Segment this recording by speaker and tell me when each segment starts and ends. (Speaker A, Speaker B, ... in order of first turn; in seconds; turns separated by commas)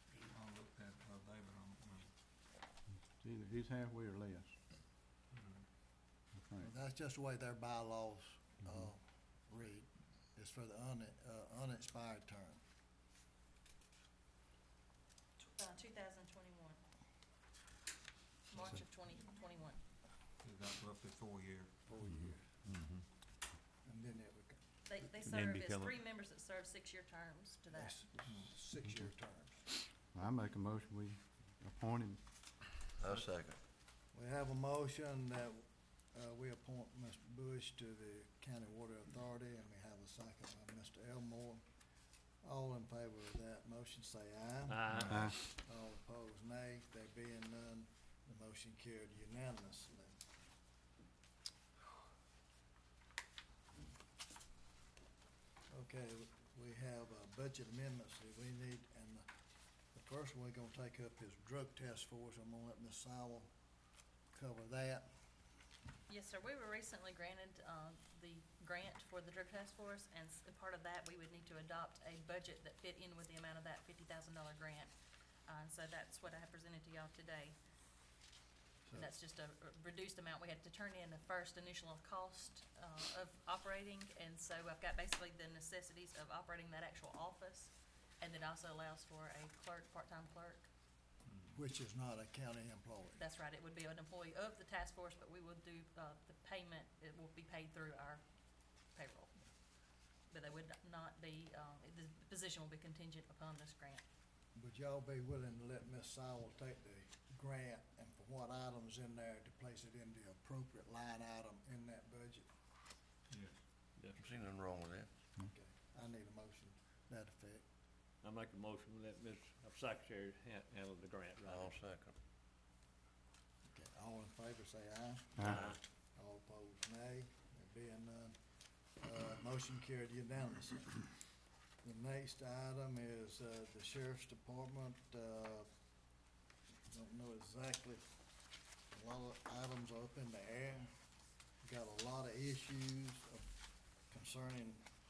Speaker A: 0.2-2.1, Speaker B: 3.2-4.5, Speaker C: 3.4-4.4, Speaker A: 5.3-5.6, Speaker B: 6.4-6.6, Speaker D: 6.6-12.6, Speaker C: 15.4-16.8, Speaker C: 18.5-19.8, Speaker A: 20.4-21.8, Speaker E: 22.7-22.9, Speaker D: 23.8-24.6, Speaker C: 24.9-28.0, Speaker E: 25.2-25.9, Speaker D: 27.7-29.6, Speaker B: 30.1-32.2, Speaker F: 33.0-33.5, Speaker D: 34.1-41.6, Speaker D: 42.4-50.2, Speaker E: 44.7-45.2, Speaker A: 44.9-45.3, Speaker D: 55.7-59.2, Speaker D: 59.9-63.5, Speaker D: 64.3-65.1, Speaker C: 66.1-74.9, Speaker C: 75.5-77.5, Speaker D: 78.8-79.2, Speaker C: 79.0-90.7, Speaker A: 91.3-91.5, Speaker D: 91.5-93.2, Speaker C: 93.2-98.2, Speaker C: 98.9-99.3, Speaker C: 100.3-104.0, Speaker D: 104.5-112.5, Speaker A: 113.3-113.5, Speaker F: 114.2-115.1, Speaker D: 115.4-117.6, Speaker E: 118.2-121.8, Speaker F: 121.5-122.1, Speaker D: 123.7-128.3, Speaker E: 125.4-125.8, Speaker D: 129.0-131.0, Speaker D: 131.8-135.7, Speaker D: 136.9-138.0, Speaker D: 138.9-140.9, Speaker D: 141.6-143.5, Speaker D: 144.1-144.8